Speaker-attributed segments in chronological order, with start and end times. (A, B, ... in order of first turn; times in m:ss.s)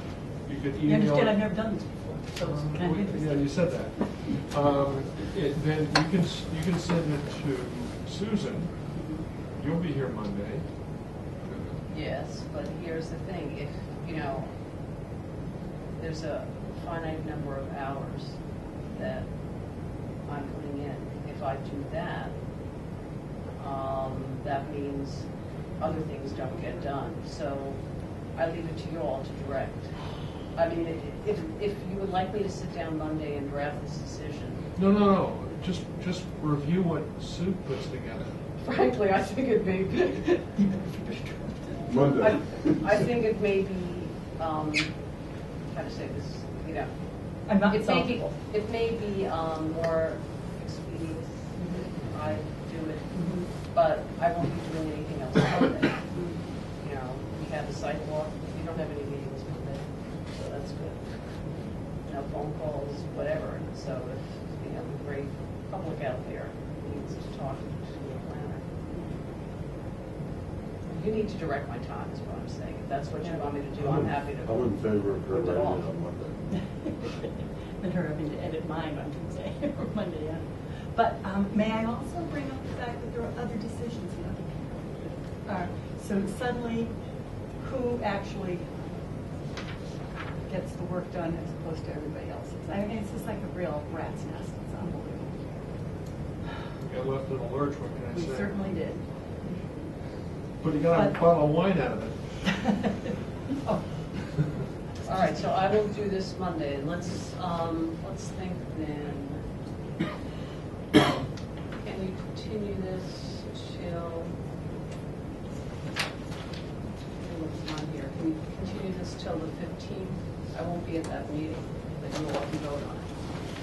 0:00.4-0:01.5 A
0:00.8-0:03.9 B
0:02.3-0:08.7 A
0:08.9-0:09.2 B
0:09.6-0:10.6 A
0:11.4-0:11.8 A
0:11.9-0:14.5 C
0:16.0-0:18.4 C
0:18.9-0:22.4 C
0:23.6-0:27.8 C
0:28.3-0:30.0 C
0:30.5-0:34.7 C
0:34.8-0:38.4 A
0:38.6-0:40.6 C
0:40.6-0:42.0 B
0:41.9-0:42.8 D
0:42.1-0:44.9 C
0:45.7-0:46.9 C
0:47.5-0:48.4 B
0:47.5-0:56.0 C
0:51.6-0:51.8 B
0:53.1-0:53.5 B
0:56.1-0:56.5 B
0:56.8-1:01.0 C
1:02.0-1:08.6 C
1:10.9-1:15.9 C
1:13.2-1:13.5 B
1:13.8-1:16.4 D
1:16.5-1:26.9 B
1:27.6-1:28.7 B
1:30.5-1:35.6 B
1:36.8-1:38.7 A
1:38.1-1:39.0 B
1:40.6-1:42.4 A
1:40.9-1:41.2 B
1:42.4-1:43.1 B
1:45.0-1:49.4 C
1:51.8-1:54.3 C
1:57.2-2:03.1 C